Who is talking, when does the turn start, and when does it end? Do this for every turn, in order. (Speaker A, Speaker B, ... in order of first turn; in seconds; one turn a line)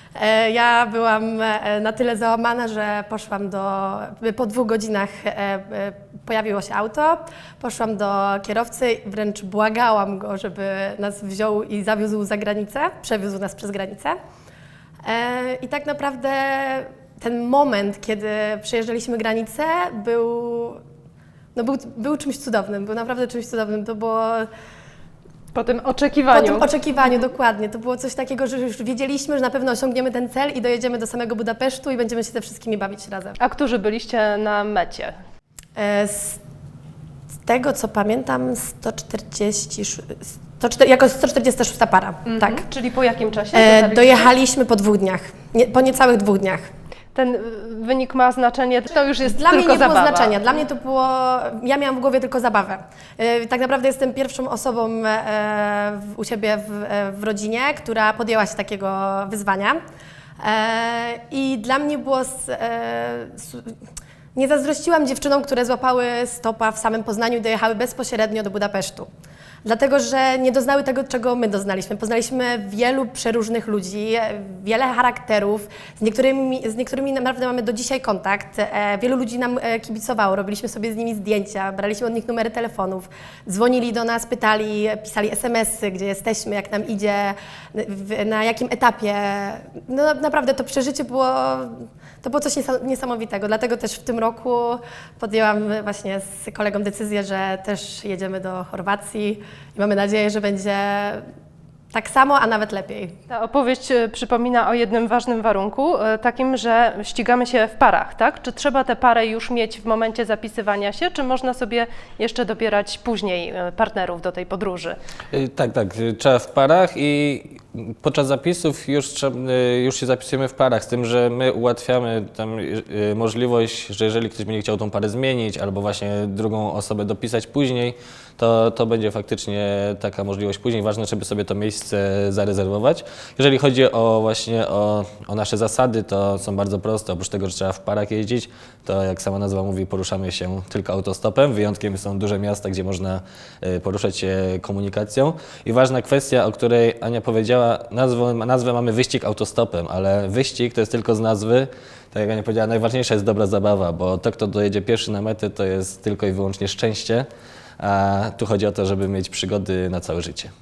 Speaker A: 0.2-14.2
Speaker A: 15.1-20.8
Speaker A: 21.6-24.5
Speaker B: 25.5-26.7
Speaker A: 26.3-33.4
Speaker B: 33.4-35.1
Speaker A: 35.8-36.4
Speaker A: 37.5-42.6
Speaker B: 42.3-44.3
Speaker A: 43.5-46.7
Speaker B: 47.1-50.5
Speaker A: 49.3-59.8
Speaker A: 60.4-63.7
Speaker A: 64.3-69.1
Speaker A: 69.7-101.2
Speaker A: 101.9-103.2
Speaker B: 103.3-115.0
Speaker C: 115.3-157.3
Speaker C: 157.8-160.5